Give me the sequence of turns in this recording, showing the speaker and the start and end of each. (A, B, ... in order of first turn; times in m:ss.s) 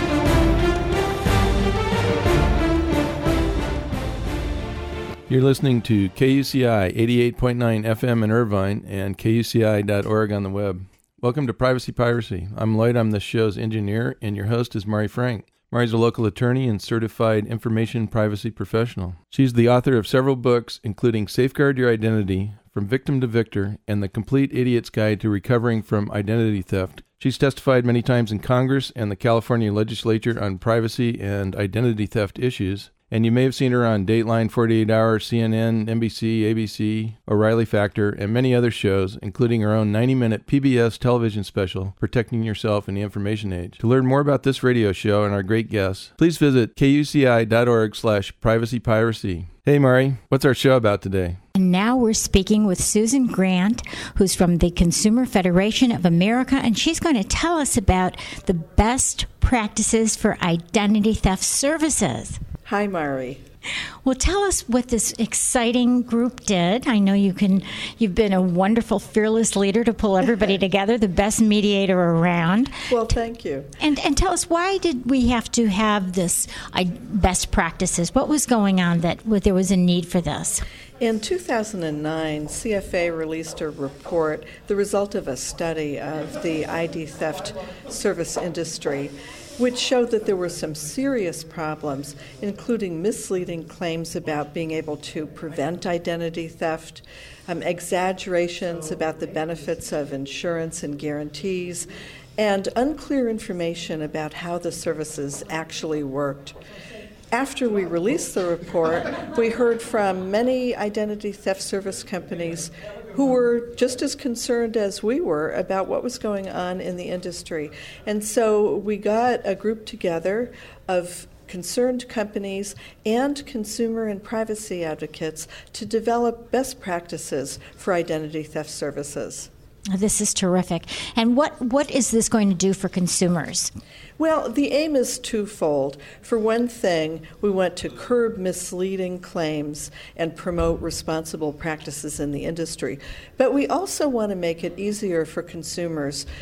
0:05.3-0:51.4 A
0:51.6-1:02.4 B
1:02.7-1:03.4 C
1:04.0-1:12.7 B
1:12.9-1:13.8 C
1:13.8-1:20.6 B
1:21.0-1:46.5 C
1:47.3-2:09.5 C
2:10.0-2:13.7 B
2:14.2-2:26.3 C